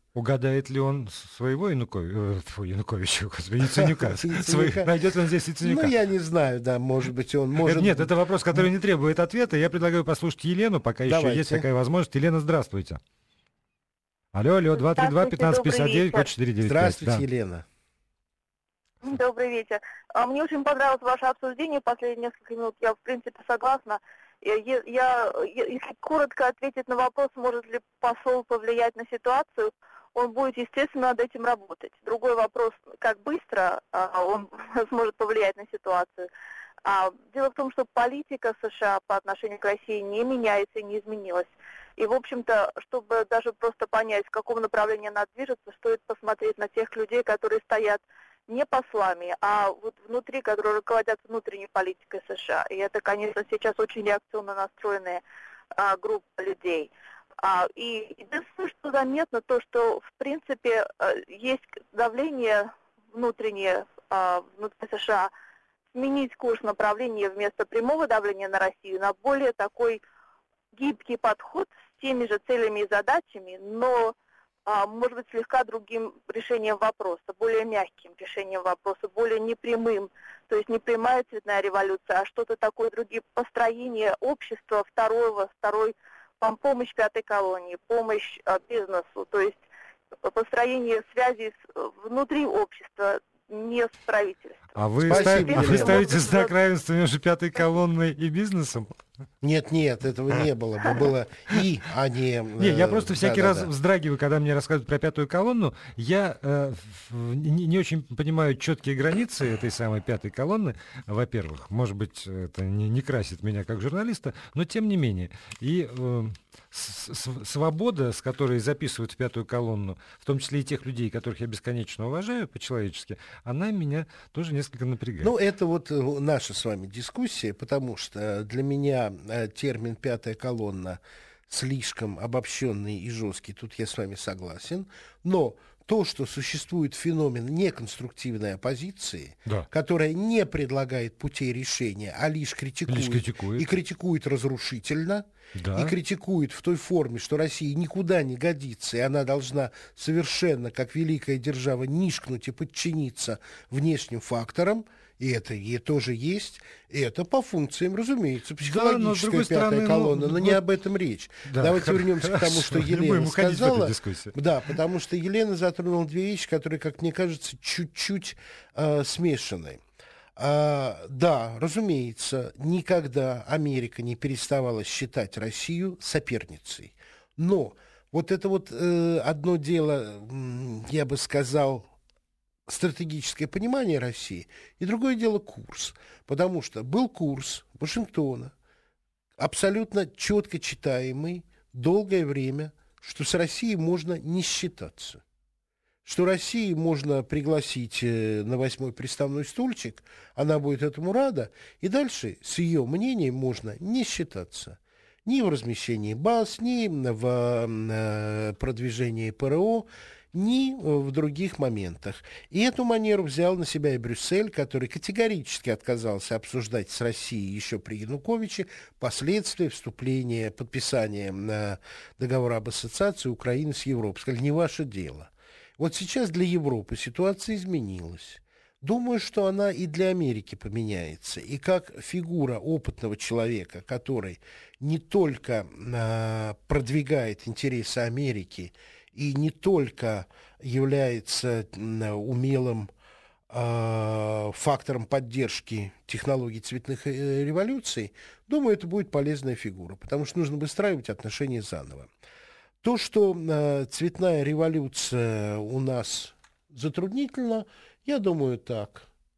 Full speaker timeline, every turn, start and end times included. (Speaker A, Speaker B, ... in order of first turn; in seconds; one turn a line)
Speaker A: 0.1-5.9
Speaker B: 3.7-5.0
Speaker B: 5.6-8.7
Speaker A: 7.6-13.0
Speaker B: 11.1-11.7
Speaker A: 14.3-17.2
Speaker C: 14.8-16.3
Speaker B: 16.6-17.6
Speaker C: 19.0-36.3
Speaker C: 36.9-55.2
Speaker C: 55.8-65.3
Speaker C: 65.9-70.0
Speaker C: 70.7-89.6
Speaker C: 90.2-96.5
Speaker A: 94.8-99.0
Speaker B: 95.1-96.1
Speaker B: 99.4-103.7
Speaker A: 102.6-125.3
Speaker B: 125.2-169.8
Speaker A: 142.9-143.7
Speaker A: 145.6-145.9
Speaker A: 158.6-160.6
Speaker A: 161.5-164.3
Speaker B: 170.4-181.9
Speaker B: 182.7-188.5
Speaker B: 189.4-195.2
Speaker B: 196.1-242.9
Speaker B: 243.5-252.1
Speaker B: 252.8-259.1